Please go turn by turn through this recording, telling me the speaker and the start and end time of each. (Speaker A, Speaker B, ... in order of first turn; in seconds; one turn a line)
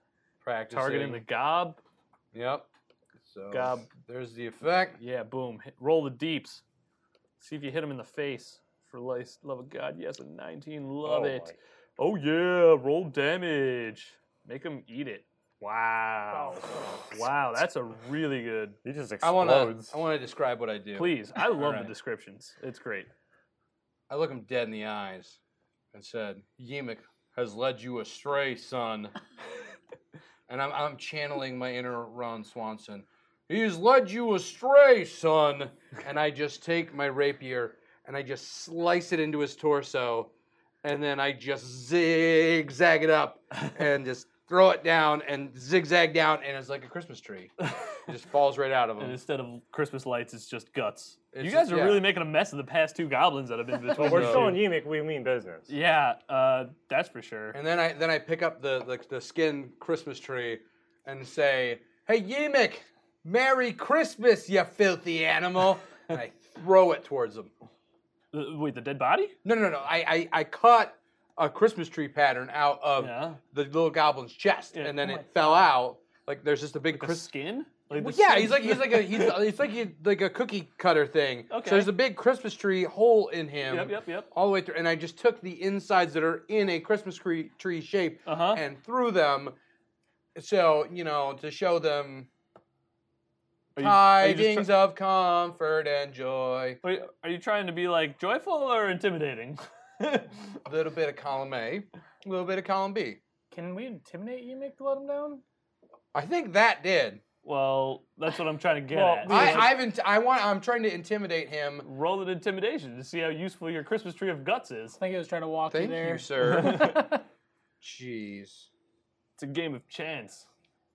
Speaker A: 0.4-1.2
Speaker B: 0.7-1.8
Speaker A: 2.3-2.7
Speaker A: 3.2-5.0
Speaker B: 3.5-3.9
Speaker B: 5.0-6.6
Speaker B: 7.4-18.8
Speaker C: 11.0-11.6
Speaker D: 16.3-17.1
Speaker C: 18.8-19.7
Speaker A: 19.2-21.9
Speaker B: 19.4-20.0
Speaker B: 20.9-23.1
Speaker A: 24.1-25.4
Speaker A: 25.9-29.2
Speaker A: 30.5-40.3
Speaker A: 40.8-47.5
Speaker A: 48.1-49.2
Speaker B: 49.0-54.6
Speaker A: 51.3-52.0
Speaker A: 54.0-54.6
Speaker C: 54.0-55.7
Speaker B: 55.7-57.6
Speaker A: 57.5-67.5
Speaker B: 68.3-69.4
Speaker A: 69.4-77.3
Speaker B: 73.0-73.4
Speaker B: 74.7-75.3
Speaker B: 76.9-79.4
Speaker A: 77.9-89.6
Speaker B: 81.5-81.9
Speaker B: 83.7-84.3
Speaker B: 88.3-88.6
Speaker A: 90.3-92.3
Speaker B: 93.8-94.7
Speaker A: 93.8-96.8
Speaker B: 96.8-100.4
Speaker A: 100.7-103.2
Speaker D: 103.5-105.4
Speaker A: 106.1-107.2
Speaker B: 107.4-109.7
Speaker C: 108.9-109.7
Speaker D: 109.3-109.6
Speaker A: 109.3-111.9
Speaker B: 111.8-115.0
Speaker D: 115.0-117.2
Speaker A: 115.7-116.9
Speaker B: 116.5-117.0
Speaker A: 117.8-118.7
Speaker B: 119.4-120.5